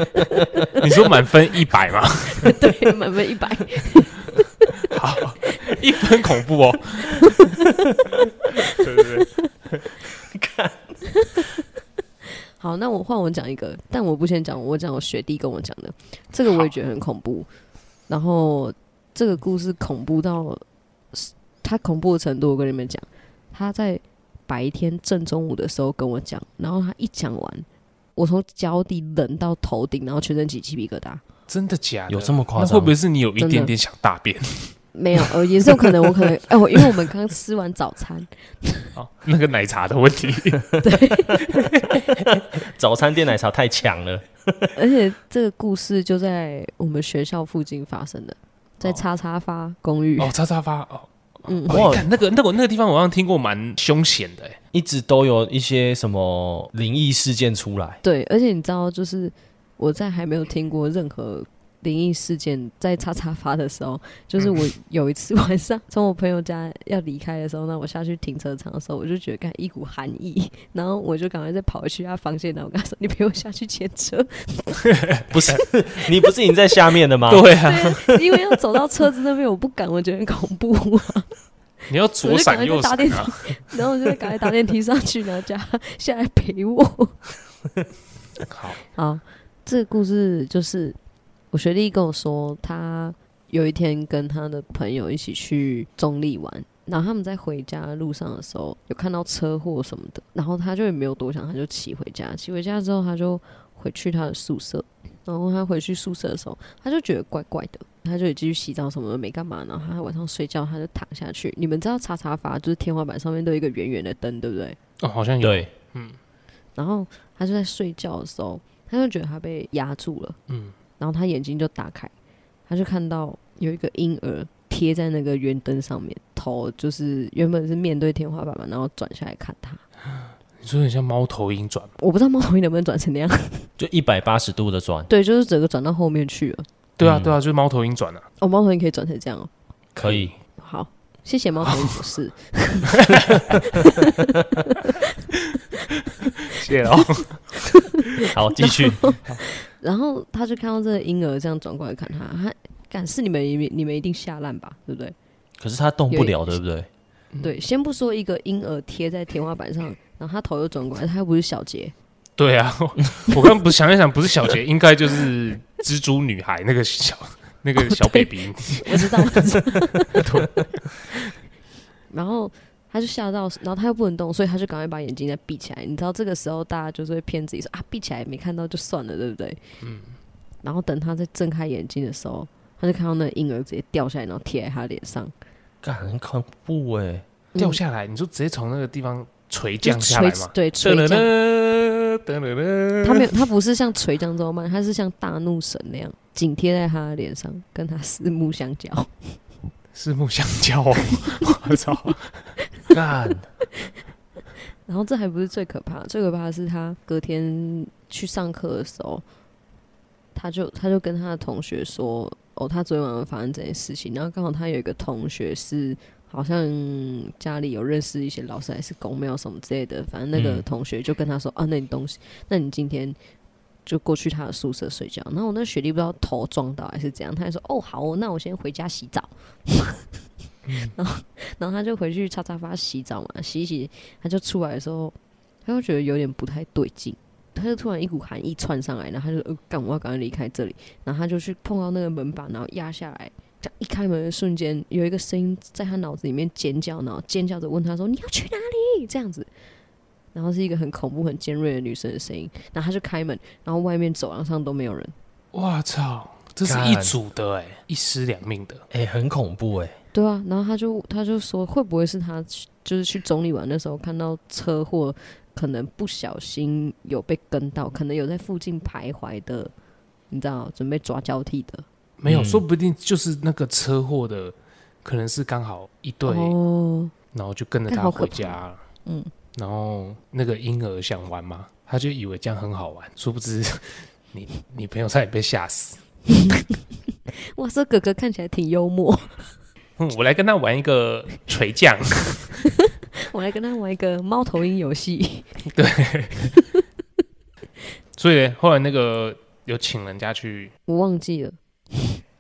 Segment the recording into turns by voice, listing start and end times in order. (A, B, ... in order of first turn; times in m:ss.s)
0:00.2-0:00.5 A
0:00.8-0:02.5 B
0:02.3-0:04.9 A
0:04.9-0:07.4 B
0:07.1-0:07.7 A
0:08.6-0:08.8 A
0:08.7-0:09.8 B
0:10.3-0:11.0 C
0:11.1-0:11.5 A
0:12.6-0:17.5 A
0:18.1-0:31.2 A
0:31.5-0:36.9 B
0:32.1-0:32.9 C
0:33.4-0:33.7 A
0:34.9-0:38.9 A
0:39.0-0:40.8 B
0:40.8-0:41.4 A
0:41.4-0:42.4 B
0:42.1-0:44.8 C
0:44.8-0:50.3 A
0:50.2-0:54.6 B
0:51.4-0:51.9 A
0:51.7-0:52.0 C
0:54.7-0:58.0 C
0:58.0-1:14.9 A
1:04.4-1:04.7 B
1:14.9-1:15.2 B
1:15.3-1:18.2 C
1:17.3-1:18.0 B
1:17.6-1:21.3 A
1:21.9-1:23.8 B
1:22.2-1:27.2 A
1:28.4-1:28.8 B
1:28.9-1:31.0 A
1:31.5-1:54.8 A
1:55.0-1:56.2 B
1:55.4-1:55.7 C
1:56.8-2:00.4 A
2:00.5-2:00.8 B
2:01.0-2:02.1 A
2:02.7-2:09.8 A
2:10.6-2:11.9 B
2:12.0-2:13.7 A
2:13.8-2:15.1 C
2:15.1-2:16.6 A
2:17.0-2:18.3 B
2:17.0-2:17.3 C
2:18.4-2:19.5 A
2:19.9-2:20.3 C
2:20.0-2:20.3 B
2:20.6-2:25.2 A
2:21.6-2:22.0 B
2:22.9-2:23.4 B
2:26.2-2:27.4 B
2:28.3-2:29.2 C
2:28.5-2:35.1 A
2:35.6-2:36.9 C
2:36.1-2:36.4 A
2:37.4-2:41.9 A
2:42.4-2:49.5 B
2:47.8-2:50.2 A
2:50.1-2:50.7 B
2:52.1-2:59.6 A
2:59.8-3:00.2 B
3:00.6-3:05.3 A
3:05.8-3:07.2 C
3:07.5-3:07.8 A
3:07.6-3:13.4 B
3:09.8-3:11.3 A
3:13.0-3:19.4 A
3:19.9-3:22.5 B
3:22.9-3:23.5 C
3:24.9-3:29.2 A
3:30.3-3:43.2 A
3:40.3-3:40.6 C
3:43.9-3:50.1 A
3:50.7-3:50.9 B
3:50.8-3:55.1 A
3:55.6-4:09.5 A
4:10.3-4:15.1 A
4:15.5-4:18.8 B
4:16.6-4:17.2 C
4:18.9-4:19.9 C
4:20.1-4:29.7 A
4:30.3-4:31.8 A
4:32.2-4:36.5 B
4:32.3-4:32.6 C
4:36.2-4:37.1 A
4:37.3-4:38.8 B
4:37.9-4:39.3 A
4:39.5-4:46.0 B
4:46.3-4:46.6 A
4:47.4-4:49.5 A
4:50.0-4:52.6 B
4:52.7-4:55.5 A
4:55.7-4:56.5 B
4:56.6-4:56.8 A
4:58.2-5:00.7 B
5:00.9-5:02.2 A